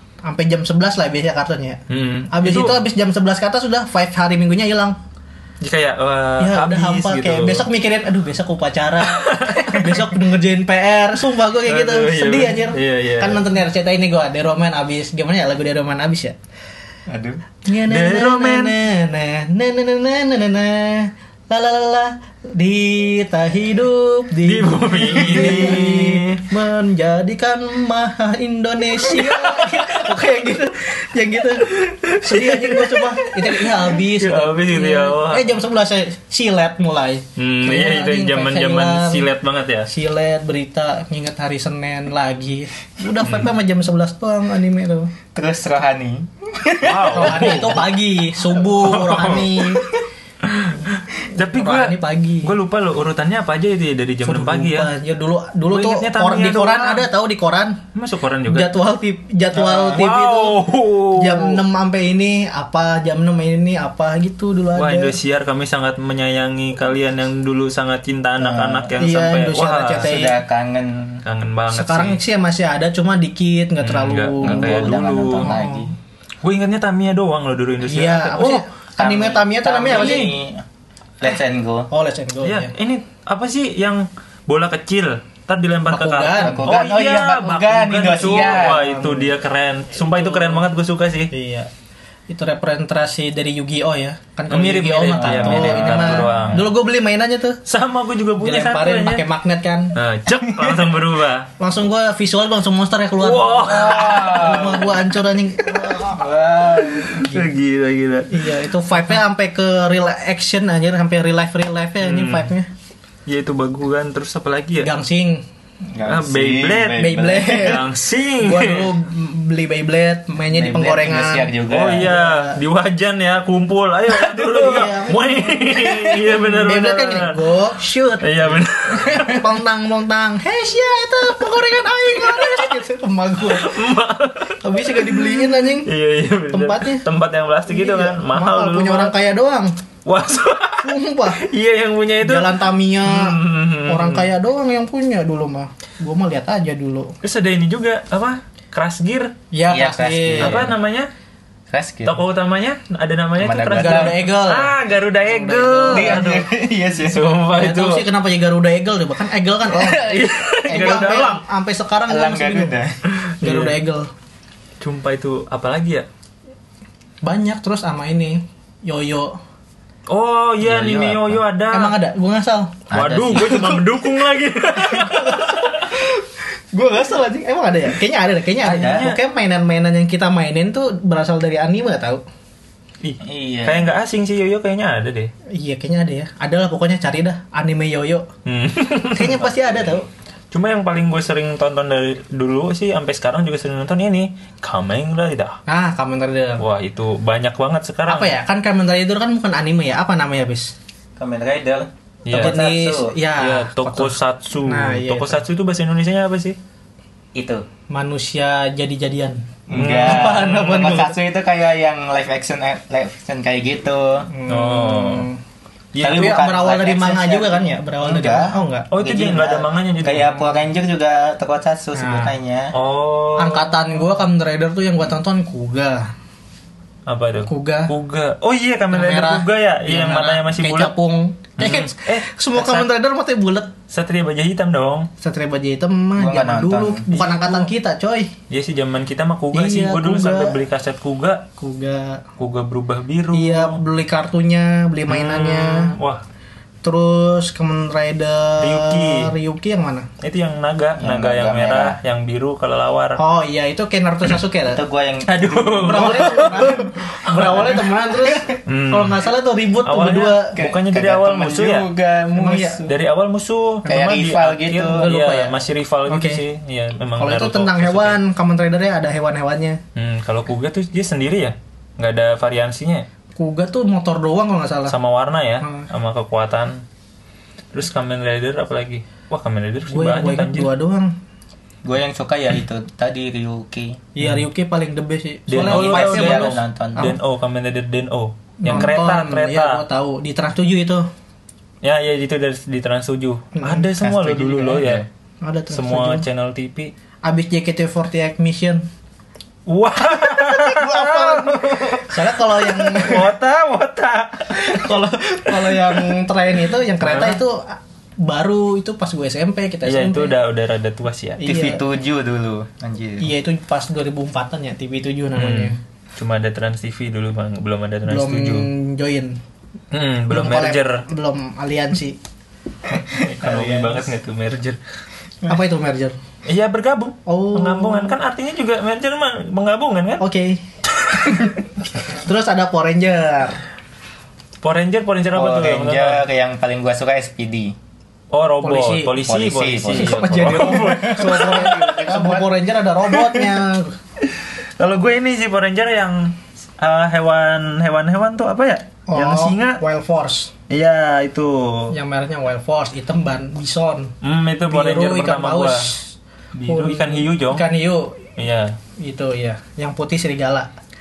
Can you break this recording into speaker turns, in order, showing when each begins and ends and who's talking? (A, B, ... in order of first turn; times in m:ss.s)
0:00.2-0:01.8 A
0:01.9-0:02.8 B
0:02.3-0:05.0 A
0:05.6-0:07.6 B
0:06.4-0:16.4 A
0:09.0-0:10.1 B
0:11.6-0:13.4 B
0:17.1-0:17.4 C
0:17.6-0:39.3 A
0:17.8-0:18.7 B
0:24.4-0:26.4 B
0:25.2-0:25.8 C
0:29.1-0:30.0 B
0:31.7-0:35.5 B
0:37.4-0:39.9 B
0:39.9-0:45.1 A
0:45.3-0:47.8 C
0:46.8-0:47.9 B
0:47.1-0:49.9 A
0:48.5-0:49.8 B
0:50.4-0:54.9 B
0:51.3-0:52.5 A
0:54.2-0:57.8 A
0:55.7-0:57.0 B
0:57.9-0:58.7 B
0:58.5-1:05.2 A
0:59.6-0:59.9 C
0:59.6-1:01.6 B
1:04.7-1:10.1 B
1:08.4-1:08.9 C
1:09.0-1:10.4 A
1:10.0-1:11.2 C
1:11.2-1:12.2 B
1:11.7-1:15.9 A
1:13.8-1:15.5 B
1:14.4-1:15.9 C
1:16.4-1:18.6 B
1:17.9-1:20.3 A
1:19.0-1:20.6 C
1:21.2-1:21.9 C
1:21.9-1:22.7 A
1:22.4-1:31.3 B
1:25.9-1:26.7 A
1:26.4-1:28.9 C
1:28.3-1:29.3 A
1:30.0-1:30.7 A
1:31.3-1:31.7 A
1:32.3-1:37.6 A
1:34.5-1:36.7 B
1:35.2-1:36.6 C
1:37.6-1:39.2 B
1:38.4-1:40.0 A
1:39.9-1:41.5 B
1:41.6-1:46.2 A
1:43.2-1:44.7 B
1:43.6-1:45.0 C
1:45.8-1:47.2 C
1:46.9-1:48.4 B
1:48.3-1:52.7 A
1:52.0-1:52.5 B
1:53.2-1:54.9 B
1:54.8-1:55.4 A
1:55.9-1:57.8 C
1:56.0-1:58.9 B
1:57.0-1:57.9 A
1:58.4-2:02.6 A
2:00.5-2:02.1 C
2:01.7-2:07.3 B
2:04.3-2:13.8 A
2:08.2-2:09.4 B
2:12.2-2:12.7 B
2:13.4-2:19.1 B
2:14.6-2:15.9 A
2:16.5-2:17.0 A
2:17.7-2:19.7 A
2:20.0-2:22.5 B
2:20.8-2:21.4 A
2:22.2-2:27.1 A
2:23.0-2:24.2 B
2:27.2-2:29.3 B
2:29.5-2:30.7 A
2:29.7-2:30.7 C
2:30.4-2:31.1 B
2:31.7-2:32.2 C
2:32.0-2:36.5 B
2:33.4-2:34.2 C
2:33.7-2:36.3 A
2:35.9-2:37.4 C
2:37.1-2:38.0 B
2:37.5-2:42.7 A
2:39.8-2:41.3 C
2:39.8-2:41.4 B
2:42.1-2:42.9 C
2:43.1-2:43.8 B
2:43.4-2:44.1 A
2:44.8-2:46.0 B
2:47.2-2:49.3 A
2:50.1-2:51.9 B
2:50.6-2:51.4 C
2:51.7-2:52.8 A
2:52.9-2:53.7 C
2:52.9-2:55.9 B
2:53.3-2:53.8 A
2:54.8-3:02.2 A
2:58.6-2:59.2 B
2:58.6-2:59.1 C
3:03.0-3:05.3 B
3:03.2-3:03.9 C
3:05.5-3:08.2 A
3:08.4-3:09.5 B
3:09.1-3:10.1 A
3:10.5-3:15.6 B
3:15.7-3:16.6 A
3:16.6-3:18.3 B
3:18.1-3:20.7 A
3:21.2-3:23.2 C
3:22.2-3:22.6 B
3:22.3-3:25.4 A
3:23.4-3:26.6 B
3:27.3-3:27.6 C
3:27.9-3:31.2 A
3:29.7-3:34.3 C
3:29.7-3:30.6 B
3:34.3-3:35.4 A
3:34.5-3:35.2 B
3:35.9-3:36.4 B
3:36.0-3:42.7 C
3:36.0-3:38.9 A
3:38.9-3:40.4 B
3:42.0-3:42.4 A
3:42.7-3:43.8 B
3:43.4-3:46.1 A
3:47.1-3:50.9 B
3:47.5-3:47.9 A
3:48.9-3:53.7 A
3:51.6-3:52.9 B
3:53.9-3:55.1 B
3:55.2-3:58.3 A
3:56.2-3:57.0 C
3:57.1-3:57.7 B
3:58.5-4:01.4 B
3:59.5-4:00.6 A
4:01.6-4:02.2 A
4:02.4-4:03.8 B
4:03.3-4:05.9 A
4:05.1-4:06.2 B
4:06.8-4:10.1 A
4:08.6-4:09.3 B
4:10.2-4:13.2 B
4:11.0-4:12.0 C
4:13.2-4:14.8 A
4:14.7-4:16.7 C
4:15.2-4:17.7 B
4:15.8-4:20.6 A
4:18.2-4:18.5 C
4:18.6-4:19.3 B
4:19.8-4:21.9 B
4:20.6-4:22.9 C
4:22.3-4:22.8 A
4:22.9-4:28.2 B
4:23.8-4:25.1 C
4:24.8-4:26.4 A
4:27.2-4:29.8 A
4:29.9-4:33.0 B
4:33.4-4:34.9 A
4:34.9-4:36.8 B
4:35.6-4:35.9 A
4:37.7-4:40.7 B
4:39.9-4:41.1 A
4:41.8-4:44.0 C
4:44.1-4:47.2 A
4:45.5-4:49.8 B
4:45.6-4:47.1 C
4:48.6-4:51.1 A
4:51.8-4:55.0 B
4:53.6-4:54.8 A
4:54.6-4:55.0 C
4:55.4-4:56.2 A
4:55.7-4:56.9 B
4:57.2-4:58.8 A
4:59.7-5:04.9 B
5:00.1-5:03.3 A
5:04.5-5:10.4 A
5:05.5-5:06.1 B
5:07.0-5:07.4 B
5:09.8-5:11.4 B
5:11.4-5:11.8 A
5:11.4-5:13.3 C
5:13.2-5:15.8 A
5:15.3-5:18.7 B
5:18.0-5:19.4 A
5:19.9-5:21.0 B
5:20.3-5:22.2 A
5:22.9-5:24.0 C
5:23.1-5:24.8 B
5:25.5-5:26.2 A
5:26.4-5:30.2 B
5:27.2-5:28.2 A
5:30.2-5:30.6 A
5:32.1-5:33.6 A
5:34.6-5:36.2 B
5:35.3-5:37.7 C
5:38.3-5:42.0 B
5:38.6-5:39.2 A
5:39.2-5:42.5 C
5:39.9-5:43.9 A
5:43.1-5:43.4 B
5:44.2-5:49.8 B
5:49.1-5:50.5 A
5:50.7-5:51.9 B
5:51.9-5:54.1 A
5:54.2-5:55.9 B
5:54.7-5:56.1 A
5:56.5-5:57.6 B
5:56.7-5:58.2 A
5:58.4-5:58.8 B
5:59.0-6:00.7 A